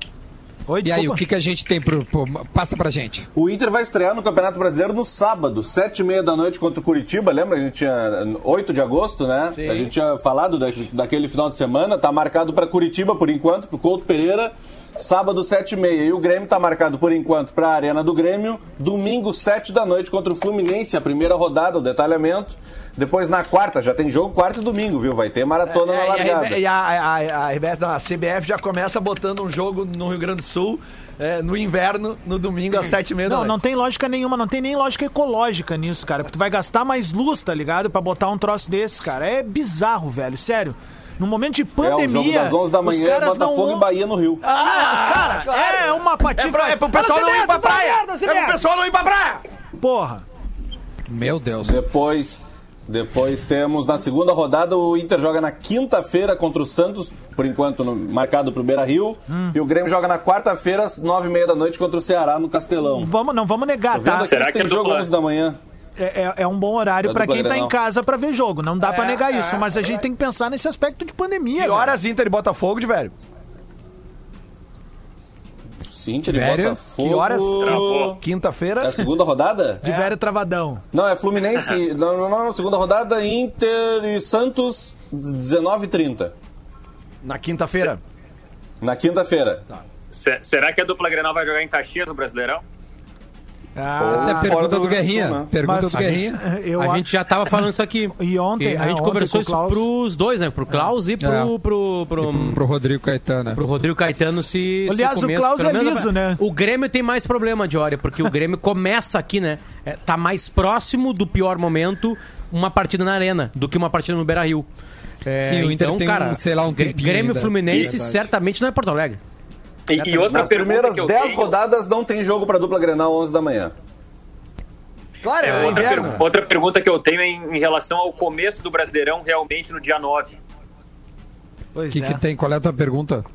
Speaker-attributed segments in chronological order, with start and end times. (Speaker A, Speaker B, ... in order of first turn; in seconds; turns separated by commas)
Speaker A: 0.7-1.2, Speaker B: 0.8-3.3, Speaker C: 3.3-26.6, Speaker D: 9.6-9.9, Speaker D: 25.6-33.6, Speaker A: 33.2-43.9, Speaker C: 41.8-44.4, Speaker A: 44.4-48.6, Speaker D: 44.4-49.4, Speaker A: 49.8-50.2, Speaker B: 51.1-51.8, Speaker C: 51.6-52.4, Speaker C: 52.9-63.1, Speaker A: 59.3-59.5, Speaker A: 62.9-64.3, Speaker C: 63.9-65.6, Speaker E: 64.2-65.1, Speaker A: 66.0-71.9, Speaker C: 67.0-67.7, Speaker D: 68.8-69.8, Speaker D: 71.5-73.1, Speaker C: 75.9-78.2, Speaker B: 76.2-76.8, Speaker D: 77.0-79.1, Speaker E: 77.6-78.2, Speaker C: 78.8-79.8, Speaker A: 79.8-80.8, Speaker D: 79.8-80.1, Speaker C: 80.9-86.3, Speaker D: 87.2-88.0, Speaker C: 88.8-89.6, Speaker E: 90.1-92.6, Speaker A: 93.8-94.6, Speaker C: 94.0-95.5, Speaker B: 94.1-96.4, Speaker A: 95.6-97.6, Speaker F: 95.9-96.2, Speaker F: 96.8-102.6, Speaker A: 98.2-99.9, Speaker B: 101.2-101.5, Speaker B: 102.2-103.6, Speaker F: 103.5-114.7, Speaker A: 104.8-106.4, Speaker F: 115.2-119.2, Speaker B: 115.4-118.2, Speaker E: 119.9-121.5, Speaker F: 119.9-120.5, Speaker C: 120.3-123.7, Speaker D: 125.2-126.3, Speaker E: 125.4-130.4, Speaker F: 125.8-126.0, Speaker A: 131.7-132.2, Speaker B: 131.9-133.2